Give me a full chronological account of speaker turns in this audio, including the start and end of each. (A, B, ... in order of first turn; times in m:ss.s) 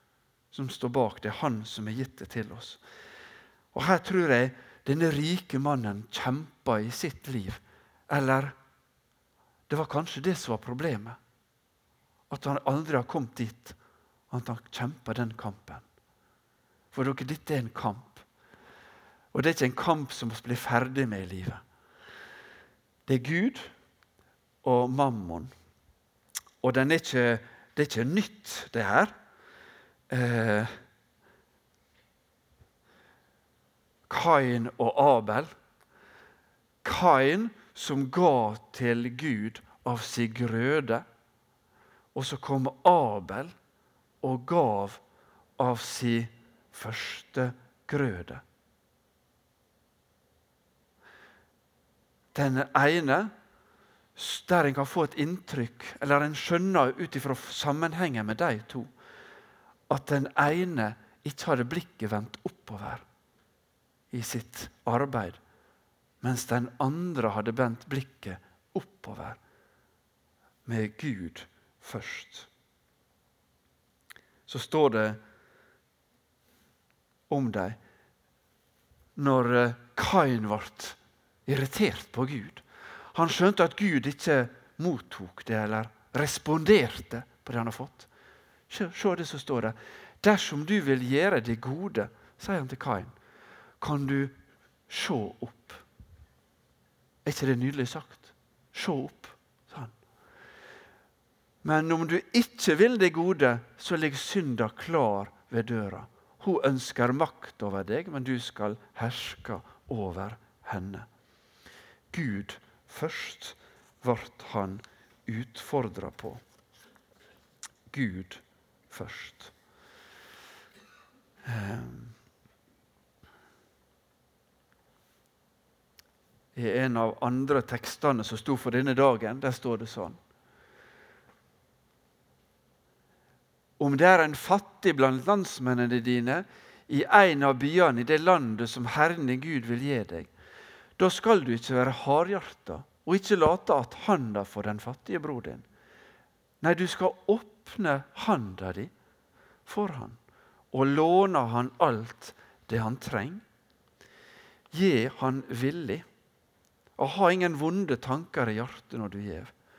0:00.5-0:02.8 A
0:03.7-0:08.6 A
0:09.7-0:11.2 A
0:12.3-0:13.8 A
0:14.3-0:15.8 A
0:16.9-0:18.2 A
0:19.3-0:21.6 A
0:23.0-0:23.7 A
0:24.6-0:25.5 A
0:26.6-0:29.1 A
0:30.1-0:30.7 A
0:34.1-0:35.5 A
0:36.8-0:41.0 A
0:42.1-0:43.5 A
0:44.2-0:45.0 A
0:45.6-0:48.4 A
0:52.3-0:53.3 A
0:54.2-0:58.9 A
0:59.9-1:03.0 A
1:04.1-1:05.4 A
1:06.2-1:09.4 A
1:10.6-1:12.5 A
1:14.5-1:15.2 A
1:17.3-1:17.8 A
1:19.2-1:28.1 A
1:28.7-1:33.1 A
1:33.8-1:34.4 A
1:34.9-1:35.8 A
1:37.2-1:40.0 A
1:41.6-1:51.0 A
1:52.1-1:56.4 A
1:57.9-1:59.5 A
2:01.4-2:02.1 A
2:06.5-2:10.2 A
2:13.8-2:20.3 A
2:21.0-2:25.6 A
2:26.6-2:28.9 A
2:29.6-2:30.2 A
2:30.7-2:33.4 A
2:34.7-2:36.1 A
2:37.0-2:39.5 A